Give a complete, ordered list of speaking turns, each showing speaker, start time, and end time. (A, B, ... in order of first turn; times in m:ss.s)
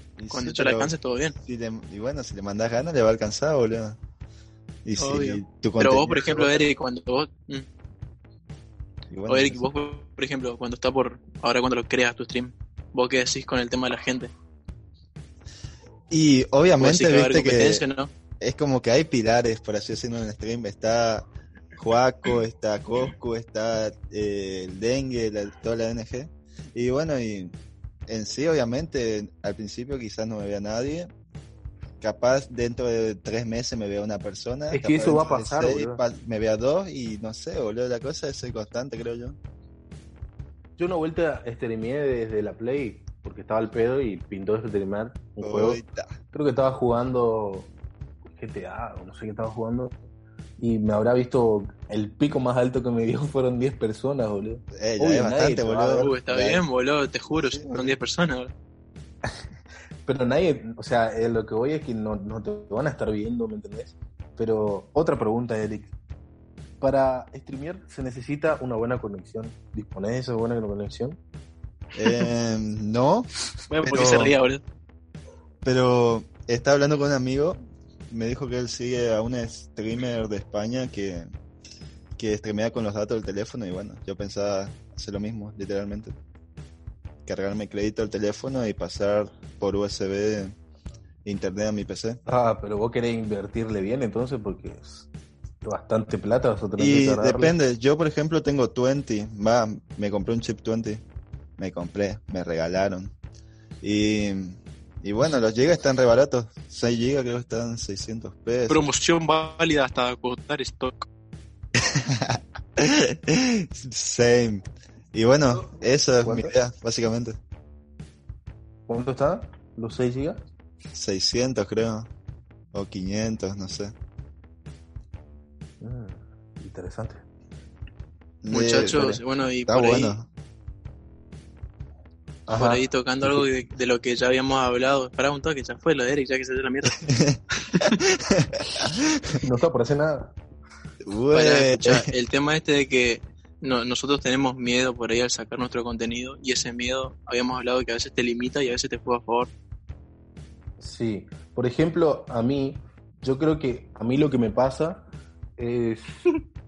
0:00.2-0:04.0 A
0:00.3-0:01.4 B
0:04.8-0:06.7 A
0:05.0-0:07.7 B
0:09.1-0:09.7 A
0:09.3-0:14.3 B
0:16.1-0:17.8 A
0:16.8-0:18.1 B
0:18.4-0:27.5 A
0:28.1-0:31.1 A
0:32.0-0:39.4 A
0:34.7-0:36.0 C
0:40.8-0:45.8 C
0:45.4-0:46.1 A
0:46.3-0:50.0 C
0:50.6-0:56.2 C
0:54.7-0:56.6 A
0:55.9-0:58.5 B
0:57.3-0:58.0 A
1:00.0-1:05.9 C
1:06.8-1:11.2 C
1:11.9-1:13.3 A
1:13.7-1:14.6 B
1:13.8-1:14.4 A
1:15.6-1:17.6 A
1:18.1-1:21.3 A
1:22.2-1:26.1 A
1:27.2-1:30.6 A
1:31.2-1:32.2 A
1:32.2-1:35.1 C
1:35.6-1:37.5 C
1:36.8-1:41.0 A
1:41.6-1:43.1 A
1:43.8-1:48.8 A
1:48.7-1:51.0 B
1:51.8-1:57.4 A
1:56.2-1:56.6 C
1:58.9-2:00.5 C
2:00.9-2:02.1 A
2:02.7-2:03.9 A
2:05.8-2:07.2 C
2:08.4-2:10.3 A
2:08.5-2:10.2 B
2:12.5-2:13.5 C
2:12.5-2:17.0 B
2:17.0-2:18.6 A
2:19.4-2:20.4 C
2:21.0-2:22.1 A
2:21.3-2:29.5 B
2:30.8-2:36.3 C